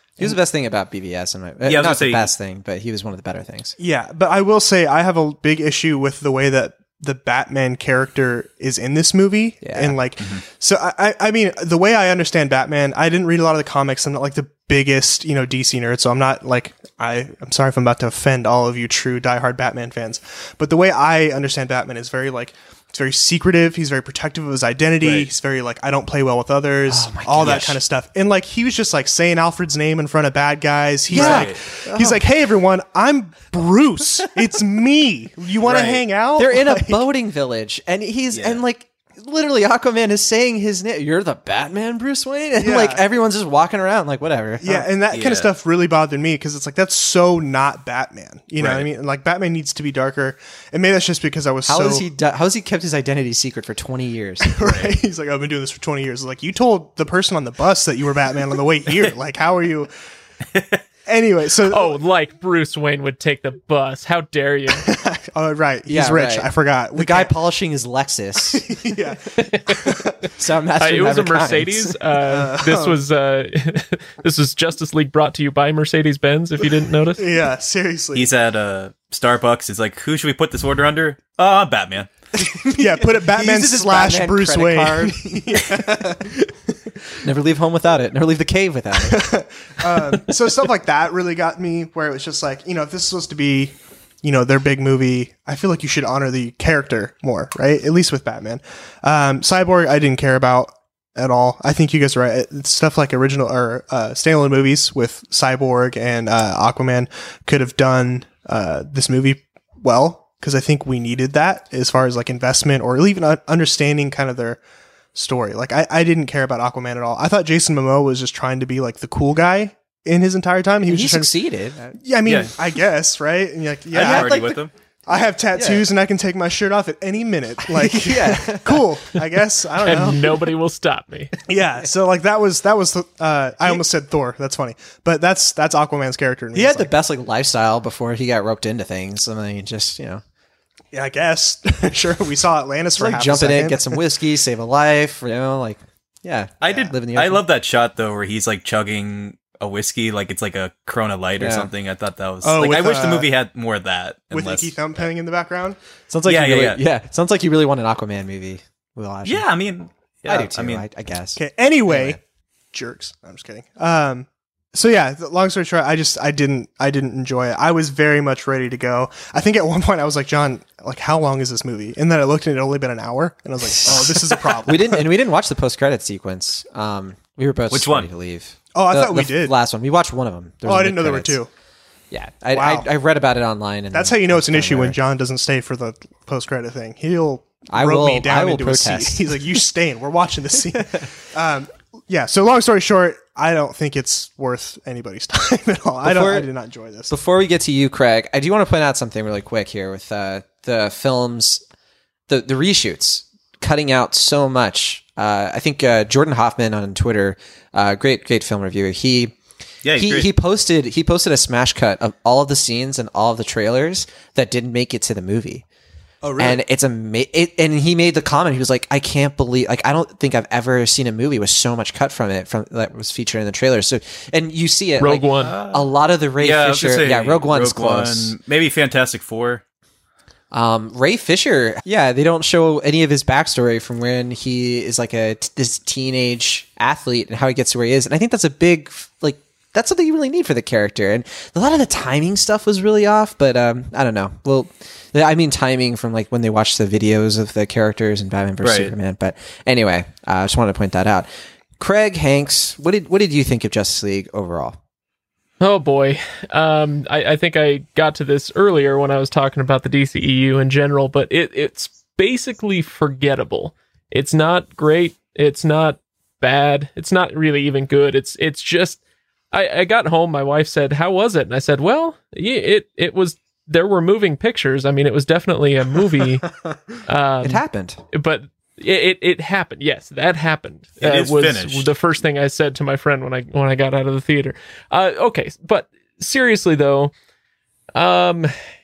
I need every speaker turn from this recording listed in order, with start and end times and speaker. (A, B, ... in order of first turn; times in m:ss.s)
0:00.2-0:03.8 A
0:01.6-0:02.3 B
0:03.8-0:37.0 C
0:09.6-0:10.0 A
0:25.0-0:25.3 B
0:26.9-0:27.8 A
0:31.1-0:32.2 A
0:31.1-0:31.6 B
0:35.6-0:36.0 B
0:36.4-0:44.9 A
0:38.3-0:38.6 B
0:42.6-0:43.0 C
0:44.6-0:52.0 C
0:45.1-0:45.5 B
0:48.6-0:48.9 B
0:51.6-0:54.6 A
0:54.5-0:59.9 C
0:54.6-0:54.9 B
1:00.5-1:00.8 B
1:01.0-1:02.0 C
1:01.7-1:04.9 D
1:04.7-1:07.3 C
1:05.8-1:08.6 A
1:08.5-1:10.3 C
1:09.4-1:09.7 D
1:09.8-1:12.0 A
1:10.8-1:17.3 D
1:12.2-1:13.0 C
1:17.2-1:18.3 C
1:18.1-1:22.1 B
1:22.4-1:26.1 A
1:22.7-1:26.9 C
1:27.2-1:29.2 A
1:29.0-1:54.6 C
1:29.9-1:30.2 A
1:55.1-2:01.3 C
2:00.8-2:01.9 A
2:01.9-2:10.4 C
2:02.2-2:02.5 B
2:03.9-2:04.7 B
2:04.0-2:04.5 A
2:05.5-2:05.8 A
2:07.7-2:08.8 A
2:09.8-2:11.3 D
2:11.5-2:16.9 C
2:16.5-2:20.2 A
2:20.9-2:24.0 C
2:23.0-2:27.4 A
2:26.6-2:35.0 B
2:31.4-2:31.7 A
2:32.4-2:33.3 C
2:34.3-2:35.8 C
2:36.1-2:39.4 A
2:36.2-2:36.8 B
2:39.2-2:40.8 B
2:40.3-2:42.2 A
2:41.4-2:42.2 C
2:42.7-2:55.0 C
2:53.6-3:01.4 A
2:57.7-2:58.1 B
2:58.7-2:59.5 C
3:00.6-3:01.5 C
3:02.1-3:05.0 A
3:02.5-3:02.9 C
3:03.9-3:17.1 C
3:07.7-3:09.4 A
3:10.6-3:11.0 A
3:16.0-3:16.5 A
3:17.1-3:21.6 A
3:22.3-3:29.4 A
3:29.8-3:30.3 B
3:29.9-3:35.6 A
3:36.2-3:36.6 C
3:36.4-3:48.4 A
3:45.0-3:45.5 D
3:45.4-3:45.9 B
3:46.4-3:49.6 B
3:50.5-4:11.3 A
4:08.6-4:08.9 B
4:11.8-4:14.8 A
4:15.6-4:29.0 D
4:29.5-4:36.4 D
4:37.0-4:47.1 D
4:37.4-4:38.0 A
4:41.0-4:41.9 B
4:47.9-4:48.5 D